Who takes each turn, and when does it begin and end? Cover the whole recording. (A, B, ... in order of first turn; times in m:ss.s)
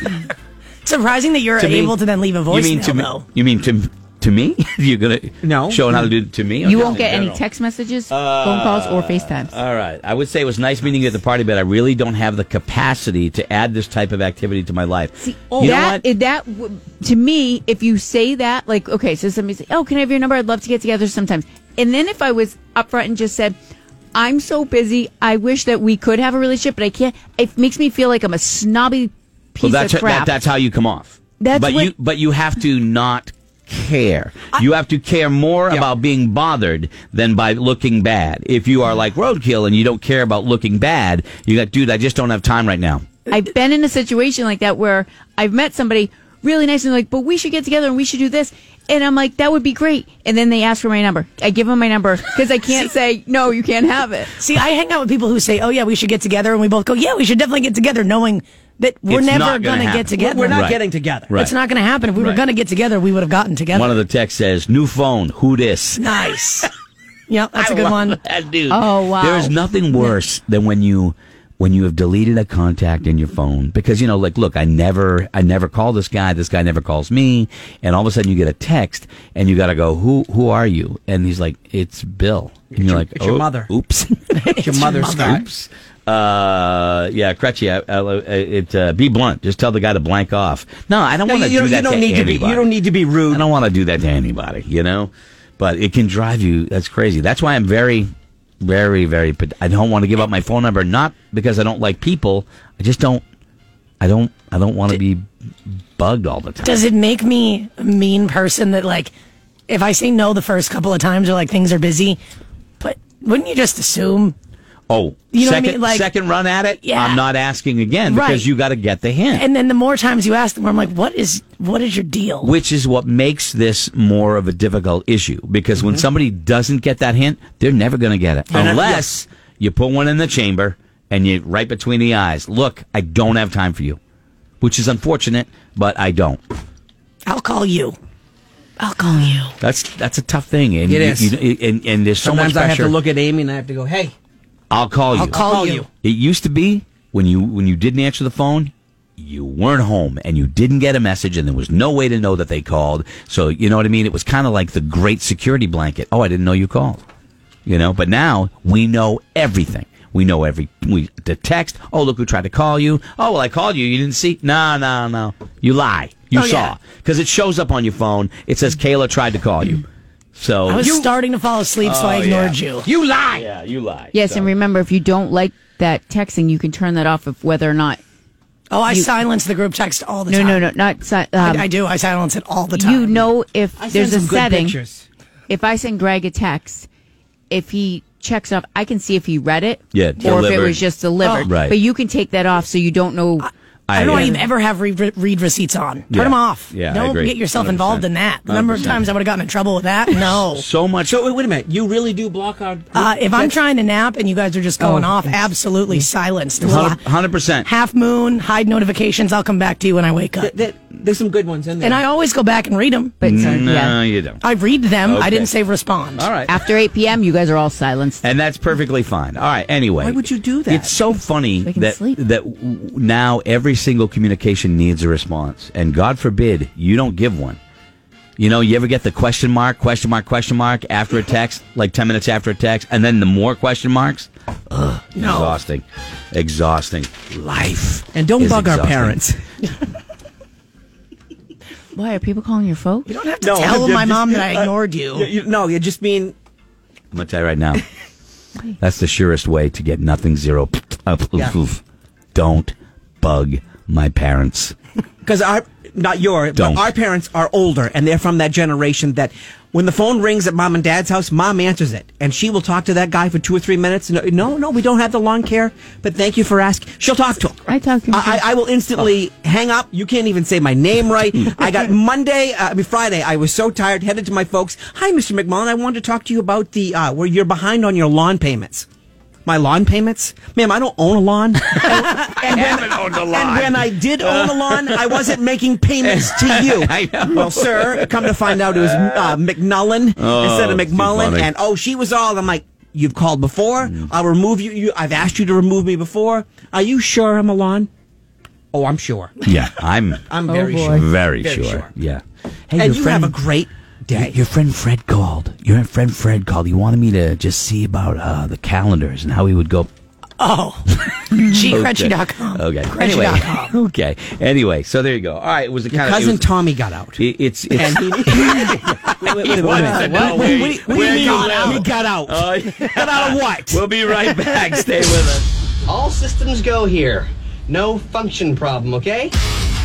0:00.8-0:03.2 A
0:01.6-0:07.4 B
0:05.4-0:06.0 C
0:06.6-0:09.6 D
0:08.1-0:16.0 B
0:15.2-0:23.6 D
0:24.1-0:30.4 D
0:29.6-0:43.1 B
0:31.4-0:31.9 D
0:43.3-0:54.4 D
0:54.4-1:00.7 A
0:59.1-1:00.8 B
1:00.2-1:01.3 C
1:01.3-1:01.6 B
1:01.3-1:04.0 A
1:02.2-1:02.4 B
1:03.7-1:06.1 B
1:06.0-1:06.7 A
1:07.3-1:08.2 A
1:07.6-1:32.8 B
1:08.7-1:09.6 D
1:22.7-1:23.7 C
1:24.3-1:25.4 A
1:24.6-1:25.4 C
1:31.2-1:33.4 C
1:33.3-1:43.2 B
1:44.0-1:46.9 B
1:46.6-1:49.1 A
1:49.7-1:52.2 A
1:52.8-1:54.4 A
1:54.9-1:59.4 B
1:55.3-1:56.1 A
1:56.8-1:57.2 A
1:58.1-1:58.5 A
1:59.3-2:02.5 A
2:02.4-2:14.0 B
2:08.5-2:09.1 C
2:14.6-2:16.4 B
2:17.3-2:18.0 A
2:18.8-2:19.5 D
2:19.6-2:23.0 B
2:20.8-2:21.3 C
2:22.2-2:24.2 C
2:24.7-2:25.4 B
2:25.1-2:25.9 A
2:25.3-2:25.9 C
2:26.0-2:37.0 B
2:37.7-2:50.9 B
2:46.3-2:46.7 A
2:50.7-2:52.9 A
2:50.8-2:51.1 C
2:51.8-2:52.6 B
2:52.9-2:53.4 C
2:53.3-2:54.5 B
2:54.1-2:58.0 D
2:58.7-3:00.7 A
3:00.3-3:01.7 D
3:01.4-3:03.2 A
3:02.7-3:04.8 D
3:03.8-3:05.0 C
3:05.5-3:06.9 D
3:07.5-3:13.5 D
3:09.9-3:10.8 B
3:11.2-3:11.5 A
3:11.4-3:11.8 B
3:13.4-3:20.7 A
3:13.9-3:14.4 B
3:14.0-3:14.4 D
3:16.1-3:19.1 B
3:20.1-3:21.2 B
3:21.0-3:23.6 C
3:22.9-3:27.1 A
3:24.8-3:25.3 D
3:26.6-3:27.7 B
3:27.6-3:30.5 A
3:30.4-3:32.0 C
3:31.8-3:33.6 A
3:33.2-3:34.0 D
3:33.2-3:34.4 B
3:34.4-3:36.3 A
3:35.0-3:35.5 B
3:36.2-3:36.6 B
3:36.5-3:38.2 D
3:38.2-3:47.6 B
3:40.0-3:41.0 C
3:41.6-3:42.2 D
3:48.4-3:59.2 B
3:55.2-3:55.6 A
3:58.1-3:59.4 C
4:01.9-4:03.1 D
4:03.1-4:05.3 A
4:03.4-4:06.3 C
4:07.1-4:07.8 B
4:08.8-4:11.8 B
4:12.4-4:14.8 B
4:15.2-4:38.9 C
4:16.6-4:16.9 B
4:27.7-4:28.4 D
4:39.5-4:57.9 C
4:41.6-4:45.4 B
4:46.0-4:49.4 B
4:50.2-4:51.5 B
4:53.8-4:54.1 B
4:58.7-4:59.4 C
4:59.4-5:00.3 B
5:00.3-5:01.9 C
5:00.5-5:01.0 D
5:00.8-5:03.4 B
5:02.8-5:04.4 C
5:04.1-5:09.9 B
5:10.4-5:13.8 A
5:11.3-5:16.5 B
5:15.9-5:17.2 C
5:17.2-5:25.5 B
5:17.8-5:23.8 C
5:19.7-5:21.9 A
5:25.9-5:29.4 E